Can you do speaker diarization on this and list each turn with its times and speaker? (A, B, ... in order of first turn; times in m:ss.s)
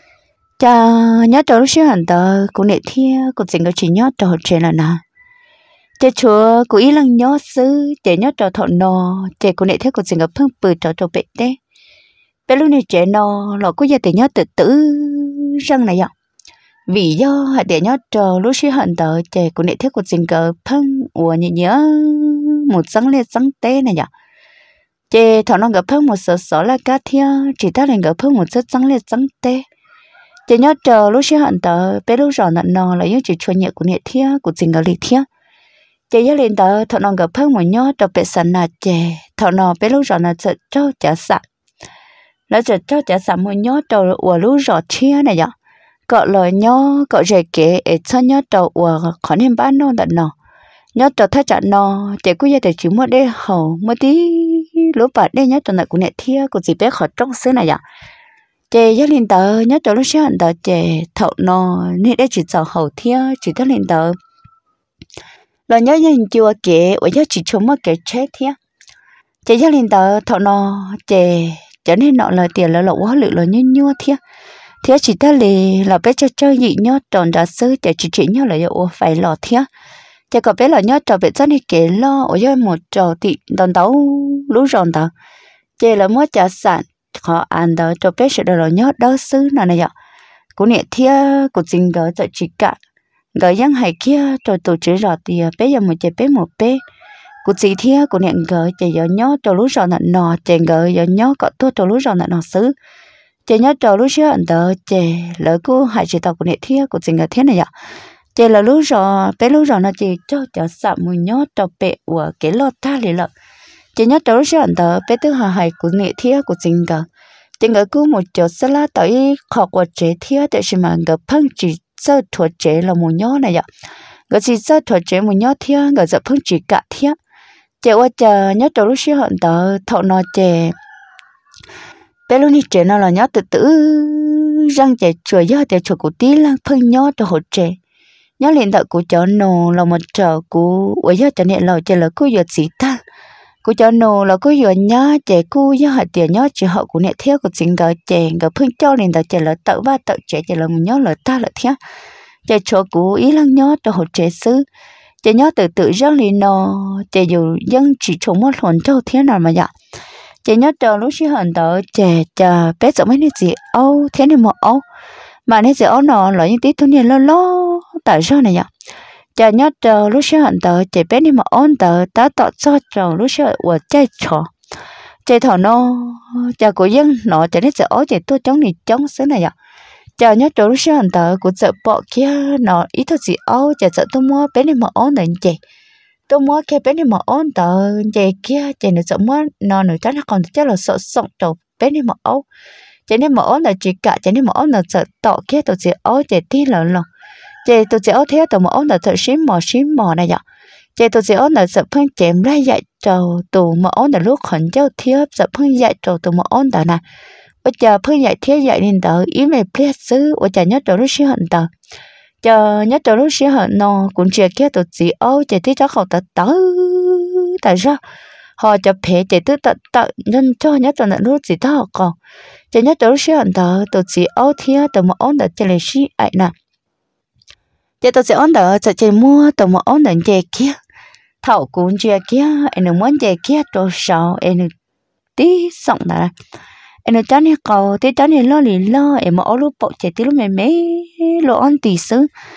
0:00.6-0:05.0 A
0:06.0-0:11.6 A
0:12.5-0:16.1 A
0:16.9-0:24.1 A
0:25.1-0:29.7 A
0:30.5-0:35.2 A
0:36.1-0:41.4 A
0:42.5-0:45.5 A
0:46.1-0:50.3 A
0:51.0-0:57.8 A
0:58.7-1:04.1 A
1:05.7-1:08.6 A
1:09.4-1:14.2 A
1:14.8-1:19.7 A
1:20.3-1:25.1 A
1:25.8-1:29.9 A
1:30.6-1:32.8 A
1:33.4-1:36.8 A
1:37.4-1:42.7 A
1:43.5-1:47.7 A
1:48.4-1:53.3 A
1:54.0-1:57.0 A
1:57.6-2:03.6 A
2:04.3-2:07.2 A
2:07.8-2:10.8 A
2:12.3-2:17.8 A
2:18.4-2:23.0 A
2:23.6-2:31.8 A
2:32.5-2:34.6 A
2:35.2-2:39.7 A
2:40.4-2:44.8 A
2:45.5-2:48.7 A
2:49.4-2:54.5 A
2:55.3-2:59.5 A
3:00.2-3:05.6 A
3:06.3-3:12.4 A
3:13.1-3:17.1 A
3:17.6-3:20.4 A
3:21.0-3:27.0 A
3:27.6-3:31.7 A
3:32.4-3:38.0 A
3:38.6-3:42.2 A
3:42.7-3:46.5 A
3:48.0-3:50.8 A
3:51.4-3:54.7 A
3:55.4-3:56.3 A
3:57.1-4:02.3 A